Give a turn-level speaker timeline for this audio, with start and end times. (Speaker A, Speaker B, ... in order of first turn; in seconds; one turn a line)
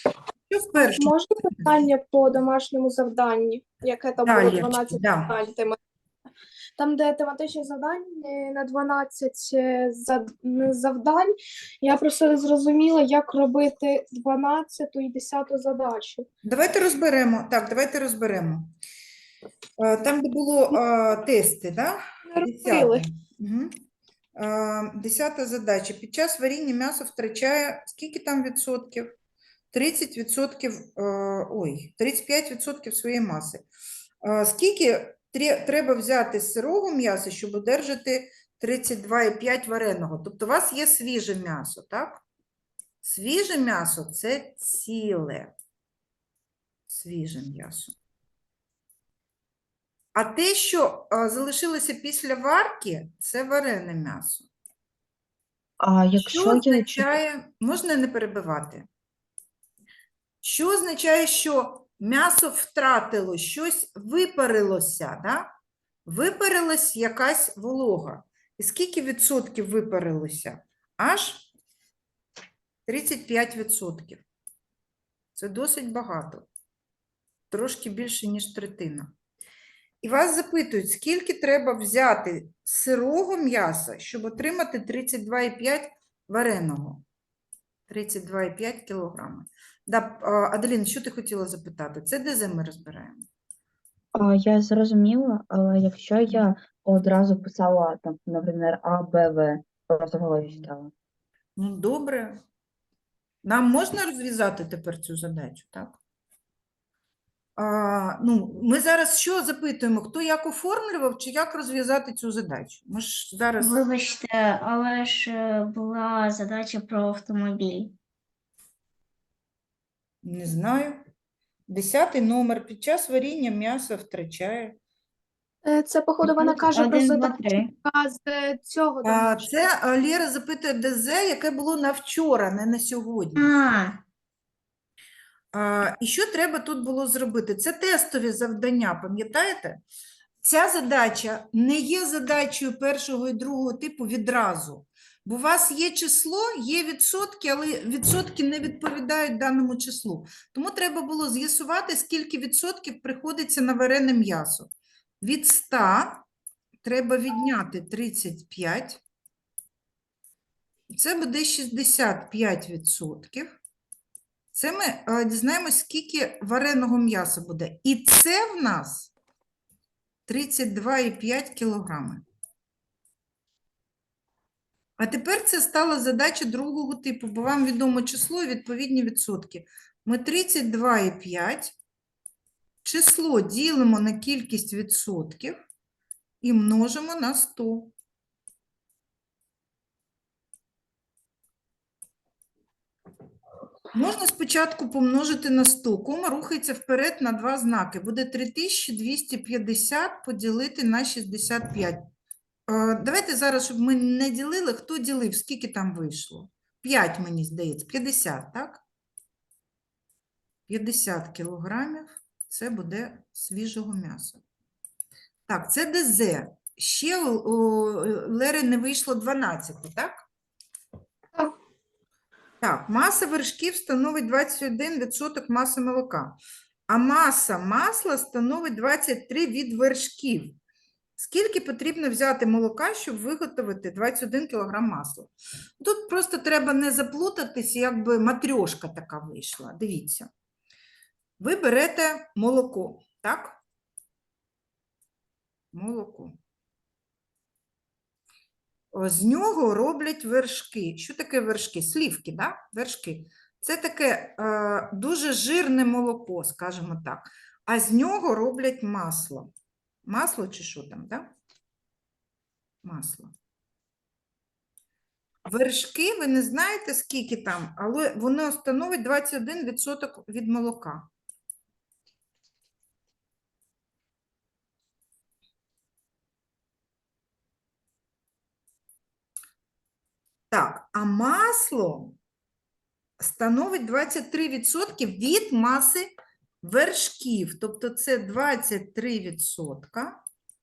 Speaker A: 0.5-1.8
Speaker B: 0.9-5.8
Speaker A: 4.2-5.4
Speaker B: 6.8-16.2
Speaker A: 16.4-18.7
Speaker A: 19.8-23.8
Speaker B: 22.3-23.0
Speaker A: 24.4-29.1
Speaker A: 29.7-33.6
Speaker A: 34.2-42.2
Speaker A: 43.0-45.5
Speaker A: 46.9-47.9
Speaker A: 50.1-54.5
Speaker C: 55.8-57.1
Speaker A: 56.1-58.9
Speaker A: 60.4-65.5
Speaker A: 66.0-71.5
Speaker A: 72.9-74.2
Speaker A: 75.3-76.5
Speaker A: 77.5-79.1
Speaker A: 80.0-87.0
Speaker A: 87.9-93.3
Speaker C: 94.1-100.9
Speaker A: 101.5-102.4
Speaker A: 103.4-106.0
Speaker A: 107.6-113.8
Speaker D: 113.6-117.9
Speaker A: 120.2-121.0
Speaker A: 121.7-124.8
Speaker B: 125.6-129.7
Speaker D: 126.2-127.7
Speaker A: 129.0-133.5
Speaker D: 133.3-134.0
Speaker A: 135.5-139.8
Speaker A: 140.4-154.7
Speaker A: 155.2-156.2
Speaker A: 156.8-159.0
Speaker A: 160.9-163.5
Speaker A: 164.5-169.1
Speaker A: 170.3-172.2
Speaker A: 175.0-181.8
Speaker A: 182.8-185.6
Speaker A: 186.4-187.9
Speaker A: 193.9-202.1
Speaker A: 202.7-208.8
Speaker A: 210.7-214.4
Speaker A: 215.5-220.2
Speaker A: 222.6-226.4
Speaker A: 226.9-230.6
Speaker A: 231.2-240.3
Speaker A: 241.4-243.6
Speaker A: 245.7-246.4
Speaker A: 248.9-259.5
Speaker A: 260.1-261.3
Speaker A: 262.8-263.3
Speaker A: 265.5-271.1
Speaker A: 280.5-282.1
Speaker A: 283.2-290.2